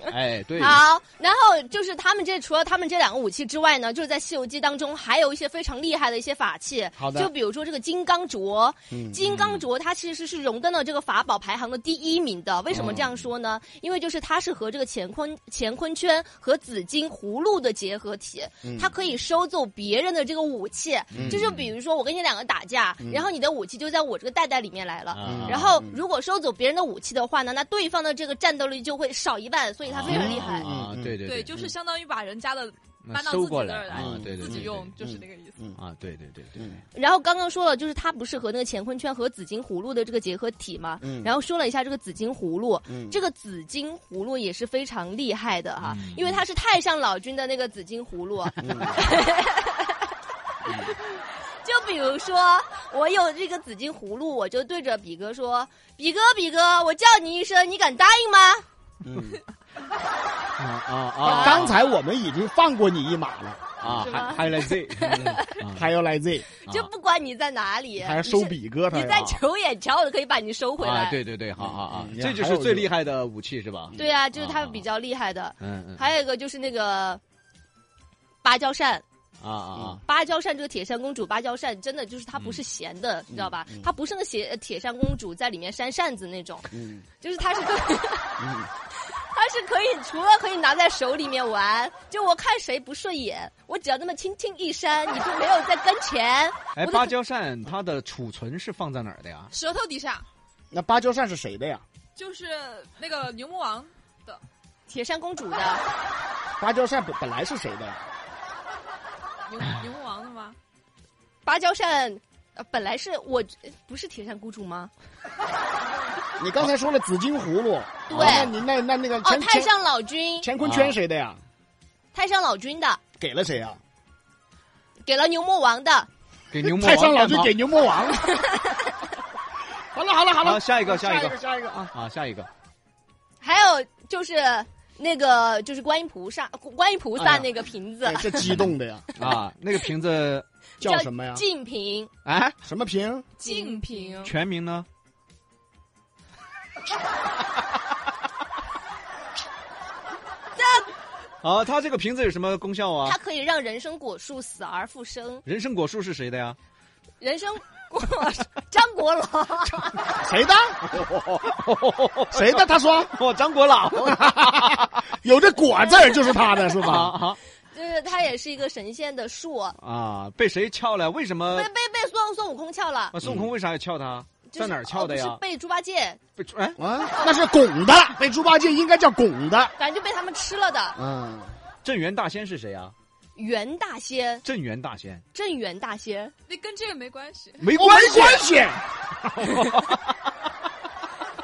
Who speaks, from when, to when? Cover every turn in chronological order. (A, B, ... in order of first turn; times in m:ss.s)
0:00.1-0:00.8 A
0:00.6-0:30.7 B
0:07.0-0:07.3 C
0:08.9-0:09.2 C
0:09.2-0:09.6 A
0:12.7-0:13.1 A
0:18.6-0:18.9 C
0:21.1-0:21.4 C
0:21.1-0:21.7 A
0:23.0-0:23.3 C
0:25.1-0:25.7 A
0:25.2-0:26.0 C
0:29.9-0:31.5 A
0:30.0-0:31.2 C
0:31.2-0:35.7 D
0:33.0-0:34.9 A
0:33.9-0:35.8 C
0:35.8-0:36.7 A
0:36.6-0:36.8 C
0:36.9-0:50.0 B
0:41.0-0:41.3 C
0:42.9-0:43.2 C
0:45.8-0:46.3 A
0:48.6-0:49.0 C
0:50.6-0:58.6 B
0:59.0-0:59.4 C
1:00.6-1:01.8 A
1:01.2-1:03.7 C
1:01.2-1:01.7 B
1:03.8-1:05.8 A
1:04.0-1:04.6 D
1:04.0-1:05.5 B
1:05.2-1:06.4 C
1:06.6-1:11.2 B
1:08.0-1:09.2 C
1:09.1-1:09.4 A
1:10.8-1:14.8 A
1:11.6-1:12.9 C
1:14.0-1:17.2 B
1:15.6-1:16.1 A
1:18.4-1:19.0 B
1:19.4-1:20.0 A
1:19.7-1:20.0 C
1:20.0-1:28.4 B
1:23.3-1:23.9 C
1:26.7-1:27.0 C
1:28.4-1:28.7 C
1:29.0-1:37.1 B
1:36.7-1:39.5 A
1:39.5-1:40.3 D
1:40.7-1:41.8 C
1:42.2-1:44.4 D
1:44.9-1:45.8 B
1:46.6-1:48.0 C
1:49.4-1:50.6 D
1:51.4-1:54.9 B
1:56.4-1:59.7 C
1:58.1-1:58.6 B
1:58.1-1:58.5 A
1:59.2-2:00.5 B
2:00.4-2:01.4 C
2:00.6-2:00.9 A
2:02.1-2:03.0 B
2:03.2-2:03.8 C
2:05.0-2:06.1 B
2:06.5-2:07.5 A
2:06.6-2:08.4 C
2:08.2-2:08.9 B
2:09.9-2:11.9 C
2:10.4-2:11.4 A
2:11.9-2:12.5 A
2:13.4-2:18.5 B
2:17.2-2:17.4 C
2:18.0-2:19.1 C
2:18.4-2:20.4 A
2:20.8-2:21.4 C
2:20.8-2:22.1 B
2:22.2-2:22.5 A
2:22.6-2:23.3 C
2:23.4-2:24.3 B
2:23.4-2:24.3 D
2:24.2-2:24.9 A
2:30.6-2:30.9 B
2:31.4-2:33.2 A
2:33.0-2:35.4 B
2:35.4-2:36.6 A
2:37.2-2:40.2 B
2:40.2-2:40.9 C
2:40.9-2:45.0 A
2:42.3-2:43.1 C
2:44.2-2:47.2 C
2:46.8-2:47.4 A
2:47.7-2:49.8 B
2:49.8-2:51.7 A
2:51.5-2:53.1 B
2:53.1-2:55.4 A
2:53.2-2:53.5 C
2:54.5-2:56.2 B
2:56.4-2:56.8 A
2:56.8-2:59.7 C
2:59.8-3:01.0 B
3:00.9-3:01.6 C
3:01.8-3:02.9 A
3:03.4-3:04.4 B
3:04.4-3:05.2 A
3:05.3-3:06.3 B
3:06.5-3:07.7 D
3:07.6-3:08.4 A
3:07.8-3:09.5 C
3:09.4-3:10.0 A